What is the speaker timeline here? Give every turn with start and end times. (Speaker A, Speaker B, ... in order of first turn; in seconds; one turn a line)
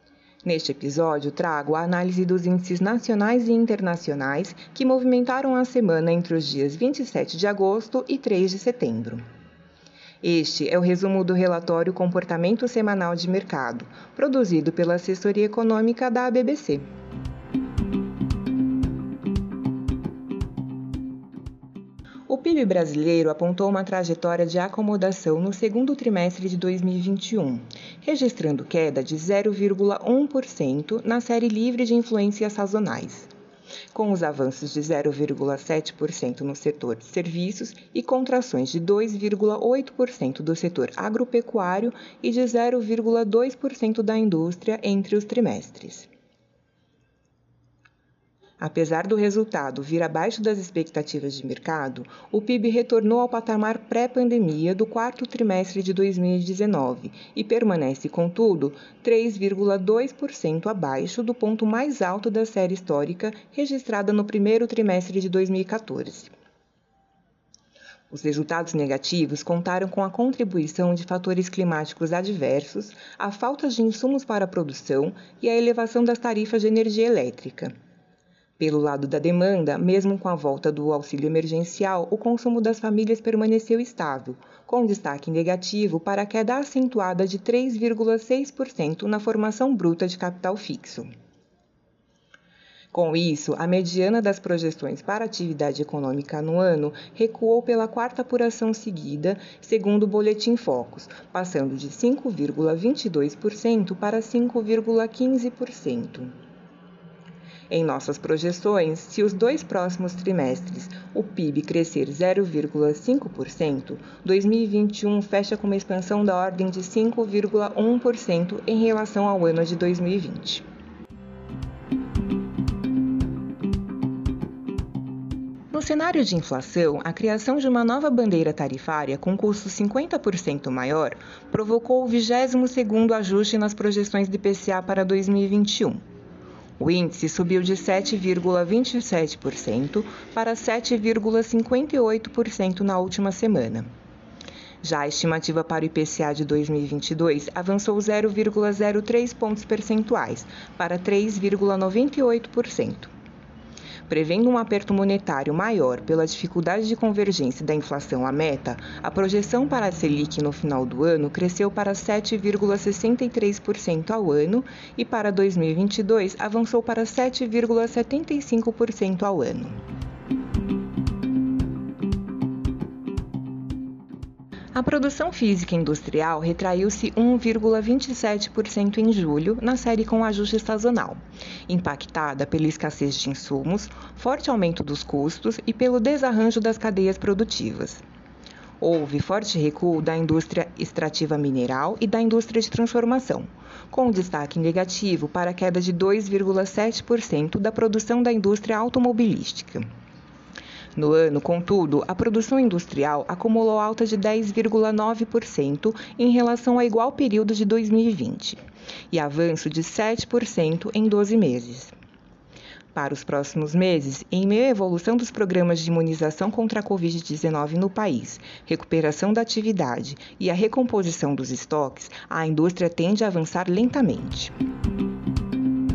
Speaker A: 0.4-9.2
Speaker A: 10.2-16.9
Speaker A: 22.3-33.3
Speaker A: 33.9-46.1
Speaker A: 48.6-66.3
Speaker A: 68.1-77.7
Speaker A: 78.6-91.1
Speaker A: 92.9-106.3
Speaker A: 107.7-120.7
Speaker A: 125.7-136.0
Speaker A: 136.8-143.9
Speaker A: 144.8-153.1
Speaker A: 154.1-169.8
Speaker A: 174.7-188.0
Speaker A: 188.8-199.8
Speaker A: 200.9-208.6
Speaker A: 209.1-211.9
Speaker A: 212.9-224.5